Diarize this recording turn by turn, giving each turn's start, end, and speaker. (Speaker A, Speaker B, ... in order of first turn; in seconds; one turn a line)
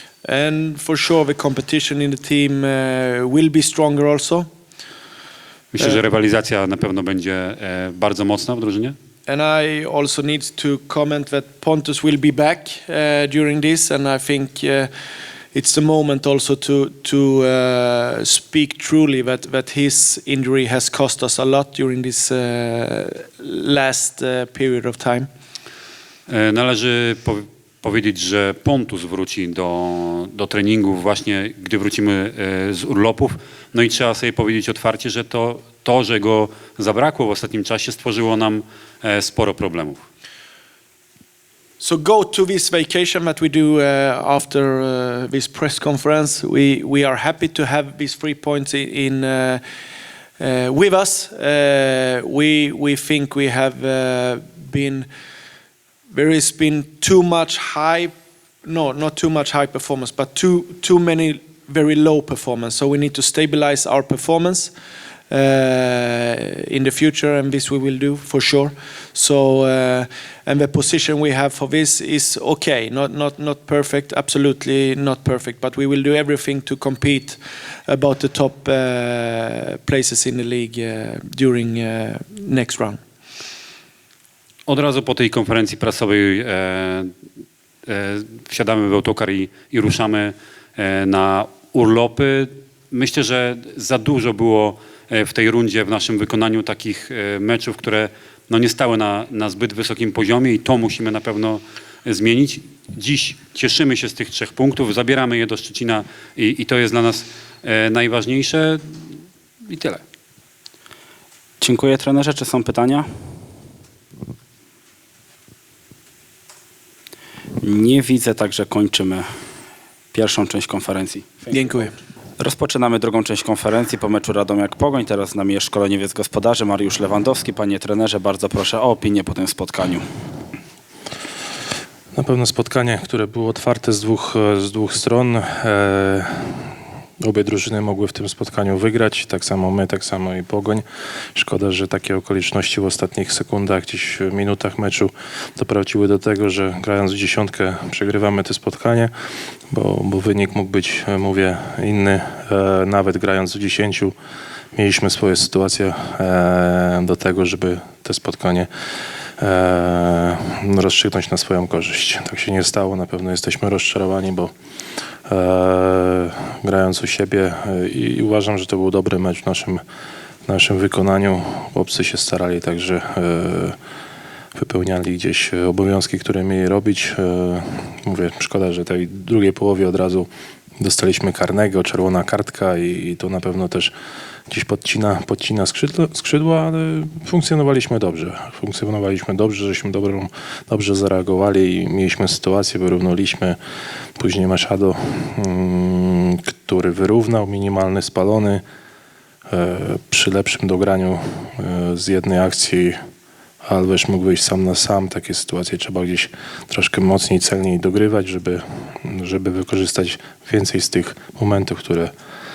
Speaker A: 0.2-4.5
Speaker B: 5.7-8.9
Speaker A: 9.3-14.9
Speaker A: 15.5-25.3
Speaker B: 26.3-40.0
Speaker A: 41.8-49.6
Speaker A: 50.4-55.1
Speaker A: 56.1-58.1
Speaker A: 58.6-64.7
Speaker A: 65.3-83.0
Speaker B: 84.7-87.1
Speaker B: 87.8-109.1
Speaker B: 109.7-110.0
Speaker C: 111.6-113.1
Speaker C: 117.6-119.3
Speaker C: 120.1-121.8
Speaker A: 121.5-121.9
Speaker C: 122.4-130.0
Speaker D: 132.1-136.6
Speaker D: 137.2-140.8
Speaker D: 141.3-149.1
Speaker D: 149.7-154.1
Speaker D: 154.7-158.7
Speaker D: 159.4-164.5
Speaker D: 165.3-169.8
Speaker D: 170.4-173.8
Speaker D: 174.6-183.9
Speaker D: 184.5-193.6
Speaker D: 194.2-198.6
Speaker D: 199.5-203.0
Speaker D: 203.6-212.1